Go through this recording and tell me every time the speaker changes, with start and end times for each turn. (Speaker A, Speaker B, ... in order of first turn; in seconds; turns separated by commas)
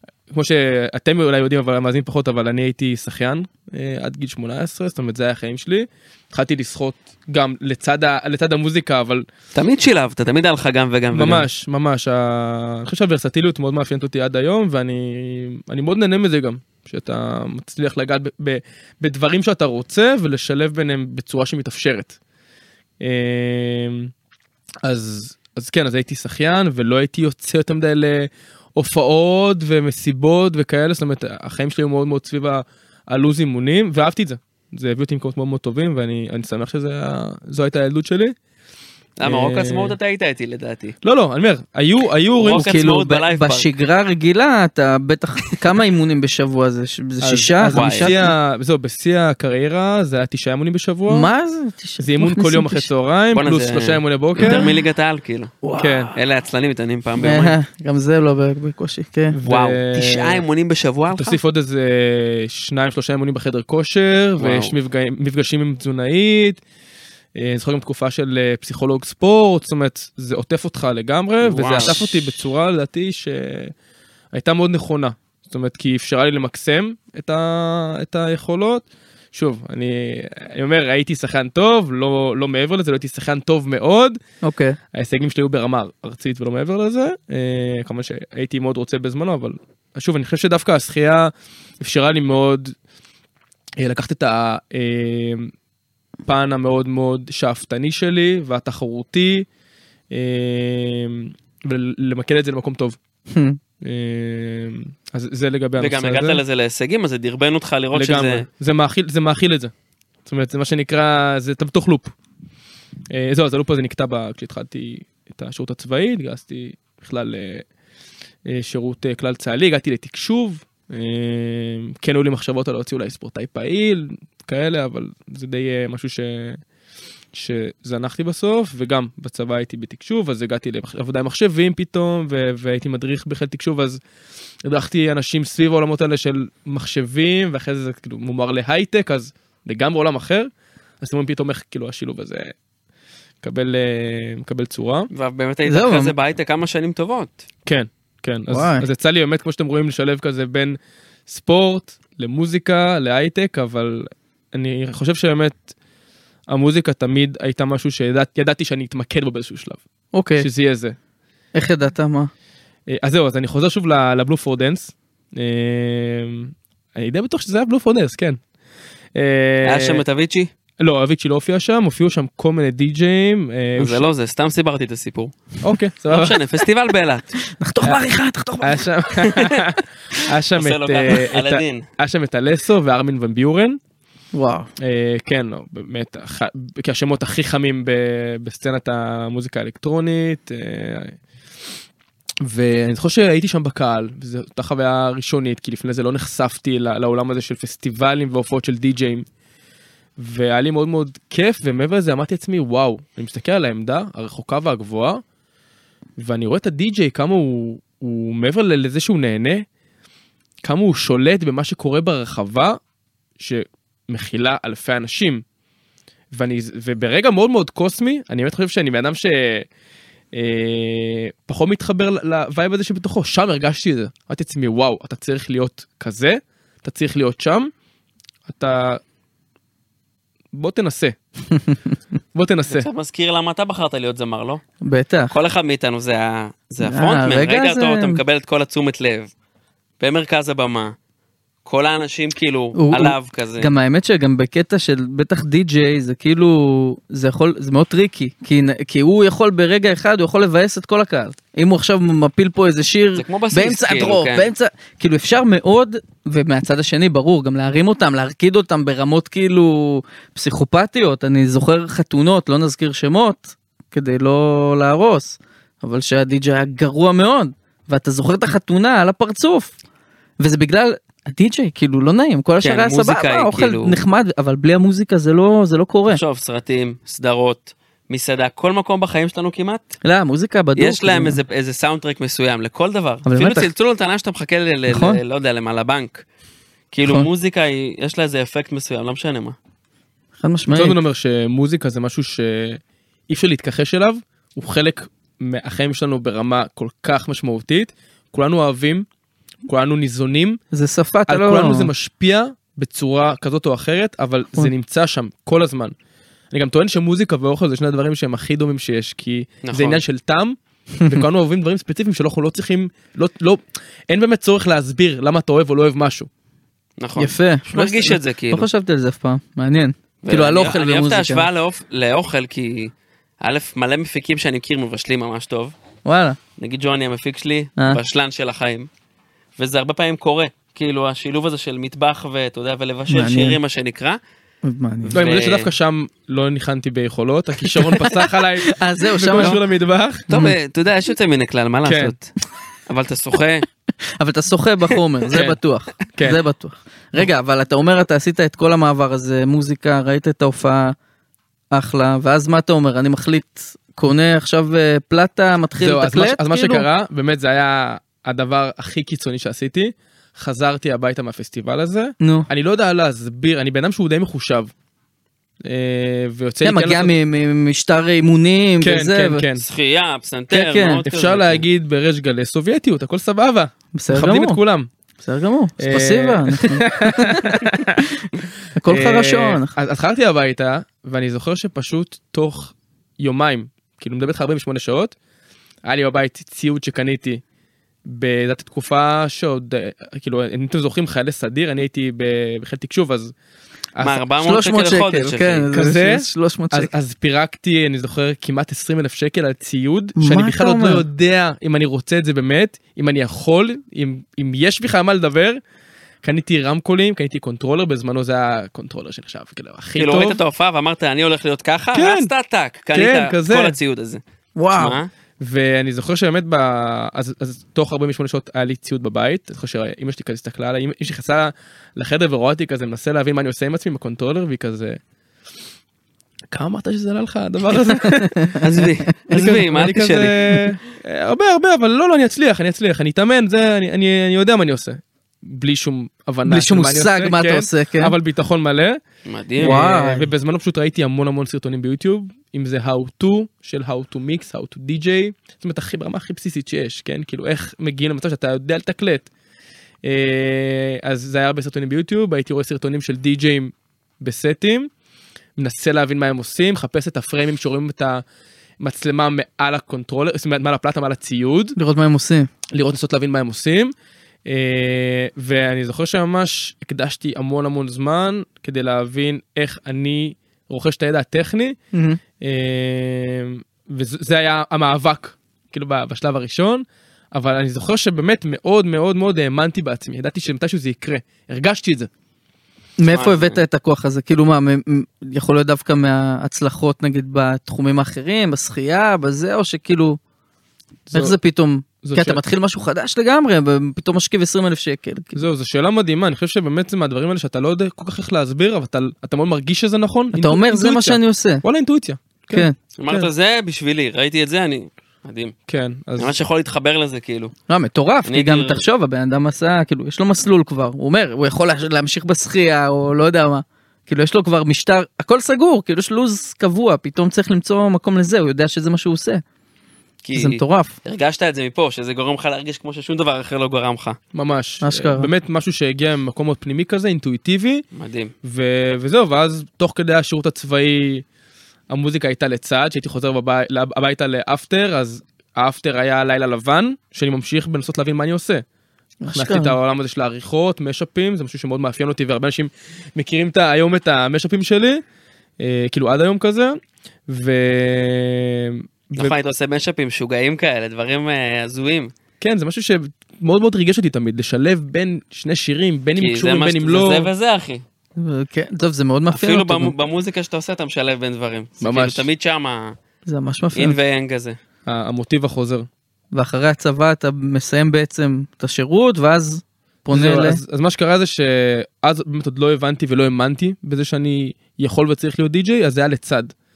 Speaker A: 0.3-9.2, Speaker B: 9.5-11.5, Speaker A: 11.1-22.2, Speaker A: 23.0-24.1, Speaker A: 24.8-38.3, Speaker B: 39.2-41.0, Speaker A: 39.2-40.0, Speaker A: 41.0-42.8, Speaker B: 42.4-43.7, Speaker C: 42.5-48.3, Speaker A: 47.2-51.3, Speaker B: 47.6-48.1, Speaker C: 51.1-52.9, Speaker A: 52.0-54.7, Speaker B: 53.3-55.6, Speaker C: 55.6-56.1, Speaker A: 55.8-56.1, Speaker B: 56.1-57.5, Speaker C: 57.2-59.4, Speaker A: 59.3-60.4, Speaker B: 59.5-61.4, Speaker A: 61.1-66.6, Speaker B: 64.4-64.7, Speaker A: 67.3-73.7, Speaker B: 71.4-72.1, Speaker A: 74.3-84.2, Speaker C: 84.4-84.8, Speaker A: 84.9-92.8, Speaker A: 93.8-95.5, Speaker A: 96.2-99.5, Speaker A: 100.1-103.0, Speaker C: 103.3-103.6, Speaker A: 103.8-106.4, Speaker B: 105.8-108.5, Speaker A: 107.9-109.7, Speaker A: 110.2-112.1, Speaker A: 113.1-117.7, Speaker A: 118.5-126.6, Speaker A: 127.3-134.0, Speaker A: 134.6-140.5, Speaker A: 141.0-142.5, Speaker A: 143.4-145.1, Speaker B: 145.1-147.4, Speaker C: 145.7-146.1, Speaker A: 147.7-155.7, Speaker C: 148.5-148.9, Speaker A: 156.5-159.8, Speaker C: 160.1-160.5, Speaker A: 160.4-160.9, Speaker C: 161.5-162.3, Speaker A: 162.9-168.4, Speaker A: 169.1-170.0, Speaker B: 169.6-170.5, Speaker A: 170.8-174.1, Speaker B: 173.8-175.4, Speaker A: 175.6-176.4, Speaker B: 176.1-177.3, Speaker C: 177.5-179.5, Speaker A: 178.6-183.8, Speaker B: 180.5-181.8, Speaker C: 184.3-184.7, Speaker A: 184.8-191.2, Speaker A: 192.4-199.2, Speaker A: 200.2-205.2, Speaker A: 206.2-209.6, Speaker A: 210.6-212.8, Speaker A: 213.4-215.4, Speaker A: 216.3-219.7, Speaker A: 220.3-227.7, Speaker A: 228.5-229.0, Speaker A: 230.5-231.2, Speaker A: 232.3-232.9, Speaker B: 232.7-234.6, Speaker C: 234.8-235.3, Speaker B: 235.3-239.3, Speaker C: 236.8-238.2, Speaker B: 240.0-240.9, Speaker B: 241.6-243.7, Speaker C: 242.7-269.7, Speaker B: 253.2-254.5, Speaker C: 270.4-276.2, Speaker B: 272.6-273.9, Speaker B: 276.1-279.9, Speaker C: 280.0-281.4, Speaker B: 280.8-286.2, Speaker C: 283.2-283.7, Speaker C: 284.9-285.2, Speaker B: 286.9-289.6, Speaker C: 290.4-291.0, Speaker A: 290.7-299.1, Speaker A: 299.6-300.6, Speaker C: 300.7-301.9, Speaker A: 301.3-305.9, Speaker A: 306.5-316.3, Speaker B: 309.6-310.0, Speaker B: 317.0-318.7, Speaker C: 317.1-321.5, Speaker B: 320.2-325.7, Speaker C: 326.0-326.4, Speaker B: 326.6-328.9, Speaker B: 329.6-334.2, Speaker C: 333.1-333.6, Speaker C: 334.6-335.2, Speaker A: 335.1-340.3, Speaker B: 335.1-335.7, Speaker C: 337.8-339.6, Speaker C: 340.3-340.5, Speaker B: 340.3-342.3, Speaker A: 341.8-342.1, Speaker B: 342.9-343.7, Speaker C: 344.2-350.9, Speaker A: 345.3-345.6, Speaker A: 346.1-346.4, Speaker C: 351.7-356.9, Speaker A: 355.8-364.7, Speaker C: 362.2-362.5, Speaker A: 365.6-367.1, Speaker C: 366.6-369.4, Speaker A: 368.8-369.6, Speaker B: 369.6-371.6, Speaker C: 370.5-371.0, Speaker A: 371.1-374.9, Speaker C: 373.9-374.6, Speaker C: 375.2-379.7, Speaker A: 375.8-378.0, Speaker A: 378.9-385.1, Speaker A: 385.8-387.4, Speaker A: 388.0-393.3, Speaker A: 393.9-394.2, Speaker B: 394.0-395.7, Speaker C: 394.4-396.9, Speaker A: 395.7-405.6, Speaker C: 400.2-401.0, Speaker A: 406.2-410.4, Speaker B: 409.9-414.2, Speaker A: 411.9-412.3, Speaker A: 412.9-413.8, Speaker C: 414.6-415.0, Speaker B: 414.8-415.1, Speaker A: 415.4-425.0, Speaker A: 426.5-428.6, Speaker C: 428.2-428.6, Speaker B: 428.6-430.4, Speaker A: 429.3-439.0, Speaker C: 436.4-438.1, Speaker B: 439.2-439.9, Speaker C: 439.6-440.3, Speaker A: 439.6-449.3, Speaker A: 450.0-454.9, Speaker A: 455.6-458.2, Speaker A: 458.8-461.8, Speaker C: 461.8-462.5, Speaker A: 462.7-463.9, Speaker A: 464.4-471.8, Speaker C: 471.9-472.2, Speaker A: 472.4-482.1, Speaker C: 483.0-490.2, Speaker B: 483.1-483.6, Speaker A: 491.1-491.4, Speaker C: 491.1-495.4, Speaker A: 492.0-492.4, Speaker A: 495.4-503.3, Speaker C: 500.3-501.6, Speaker B: 503.0-505.5, Speaker A: 505.7-506.3, Speaker B: 506.2-507.5, Speaker C: 507.7-519.4, Speaker B: 508.2-508.8, Speaker B: 520.2-524.2, Speaker C: 520.3-521.0, Speaker A: 524.3-527.8, Speaker C: 524.8-525.3, Speaker B: 527.9-528.3, Speaker A: 528.4-531.2, Speaker A: 531.9-538.6, Speaker C: 539.2-539.7, Speaker A: 539.3-545.0, Speaker A: 545.6-549.3, Speaker B: 549.1-552.1, Speaker A: 552.4-557.3, Speaker B: 556.2-557.8, Speaker C: 558.2-559.9, Speaker B: 559.3-563.0, Speaker A: 561.8-562.3, Speaker C: 563.2-564.0, Speaker B: 563.7-564.6, Speaker A: 564.9-565.9, Speaker C: 566.3-570.6, Speaker A: 570.1-576.5